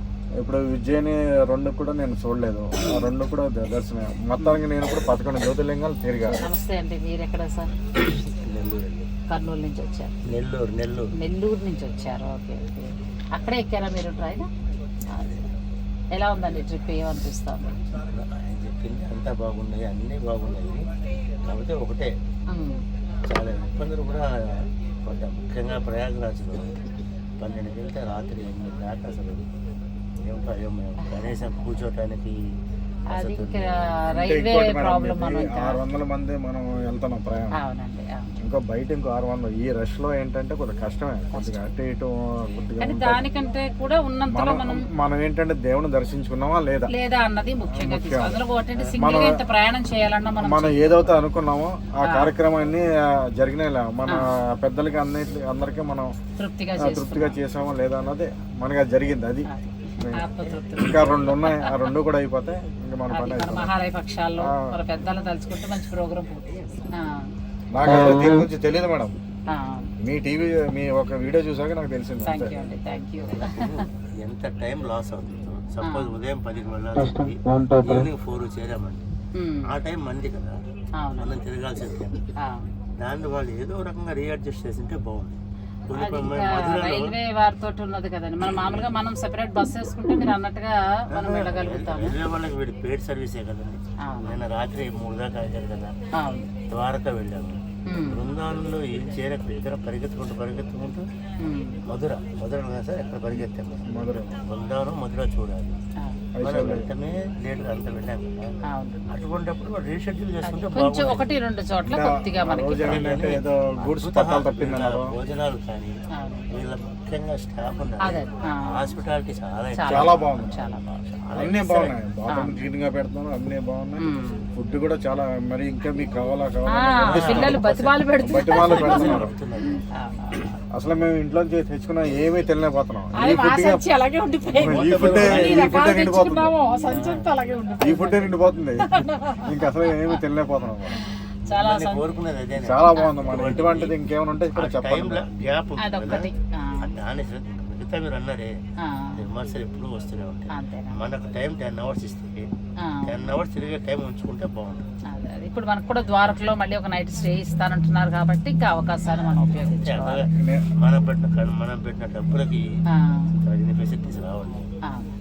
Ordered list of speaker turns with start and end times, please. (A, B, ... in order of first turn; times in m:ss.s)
0:00.4-0:06.4 A
0:06.3-0:07.7 B
0:08.4-0:09.1 C
0:09.3-0:10.1 B
0:10.3-0:11.0 C
0:11.2-0:14.5 B
0:16.1-0:17.8 B
0:18.0-0:20.9 C
0:21.5-0:22.1 C
0:22.5-0:22.8 B
0:23.3-0:24.3 C
0:25.0-0:26.8 C
0:27.4-0:29.4 C
0:30.2-0:32.3 C
0:31.1-0:31.4 B
0:33.1-0:35.8 B
0:33.2-0:33.6 C
0:34.2-0:37.5 A
0:37.6-0:38.4 B
0:38.4-0:43.2 A
0:41.3-0:41.7 B
0:42.8-0:44.7 B
0:44.3-0:46.9 A
0:46.9-0:51.2 B
0:47.7-0:48.4 A
0:48.9-0:49.4 A
0:50.4-0:56.1 A
0:52.1-0:52.3 B
0:56.4-0:57.4 B
0:56.8-0:59.5 A
0:59.5-1:01.8 B
1:00.4-1:01.2 C
1:00.8-1:03.7 A
1:03.1-1:06.4 B
1:07.0-1:07.3 B
1:07.7-1:09.2 A
1:09.5-1:09.9 B
1:10.0-1:12.6 A
1:12.2-1:13.8 B
1:13.3-1:19.1 C
1:15.8-1:16.1 B
1:19.4-1:19.7 B
1:19.7-1:20.6 C
1:21.0-1:21.3 B
1:21.2-1:22.2 C
1:22.4-1:22.7 B
1:23.0-1:27.1 C
1:25.9-1:32.2 B
1:31.1-1:36.0 C
1:34.0-1:34.4 B
1:36.2-1:36.4 B
1:36.7-1:41.0 C
1:37.9-1:38.2 B
1:41.4-1:41.8 B
1:41.9-1:45.8 C
1:43.9-1:44.4 A
1:46.4-1:46.9 A
1:46.4-1:48.4 C
1:48.7-1:49.0 B
1:49.1-1:51.3 C
1:50.4-1:53.0 B
1:51.8-1:55.1 A
1:52.8-1:56.0 C
1:56.2-1:56.5 B
1:56.5-2:01.9 C
1:58.0-1:58.9 B
1:59.8-2:00.8 B
1:59.9-2:00.6 A
2:01.4-2:09.3 A
2:02.3-2:02.6 B
2:04.0-2:04.4 B
2:06.8-2:09.2 B
2:07.1-2:07.7 C
2:08.2-2:09.8 C
2:10.0-2:10.4 B
2:10.7-2:13.8 A
2:13.2-2:20.2 B
2:14.5-2:16.6 A
2:14.5-2:15.8 C
2:16.8-2:17.1 C
2:17.8-2:21.0 A
2:20.9-2:22.0 B
2:21.5-2:23.9 C
2:22.6-2:25.2 A
2:24.5-2:28.5 C
2:25.8-2:26.9 B
2:28.8-2:29.1 B
2:29.2-2:32.4 C
2:30.5-2:31.0 B
2:32.8-2:33.3 B
2:33.0-2:34.8 C
2:35.1-2:40.2 B
2:39.6-2:40.2 C
2:40.4-2:40.7 A
2:40.8-2:42.6 C
2:43.0-2:43.3 B
2:43.4-2:44.7 C